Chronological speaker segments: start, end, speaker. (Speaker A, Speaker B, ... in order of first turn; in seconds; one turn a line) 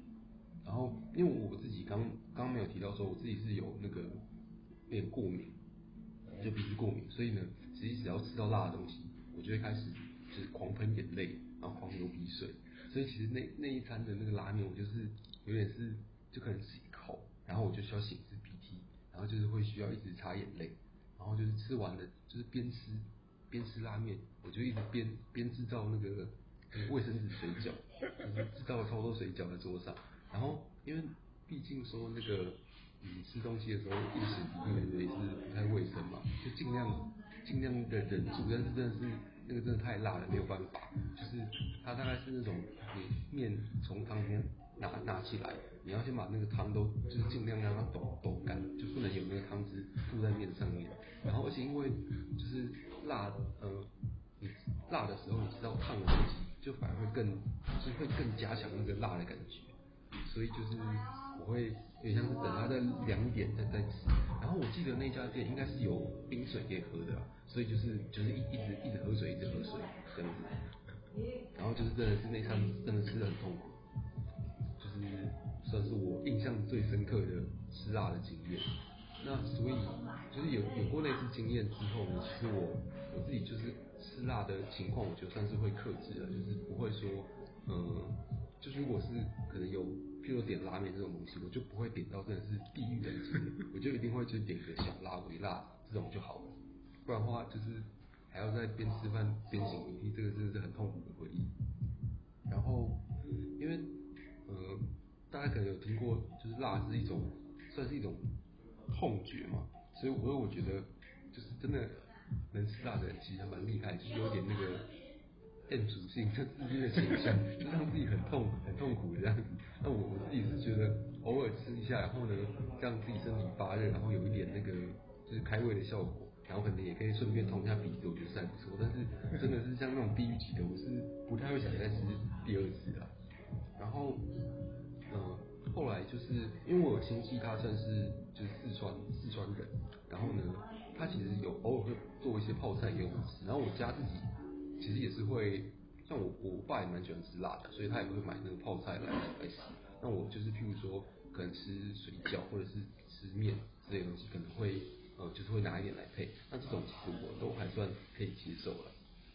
Speaker A: 0.6-4.2
Speaker A: 4.9-5.6
Speaker A: 6.4-70.6
Speaker A: 71.5-73.8
Speaker A: 74.8-101.5
Speaker A: 102.5-103.1
Speaker A: 103.6-114.9
Speaker A: 115.7-133.1
Speaker A: 133.8-134.4
Speaker A: 135.1-158.9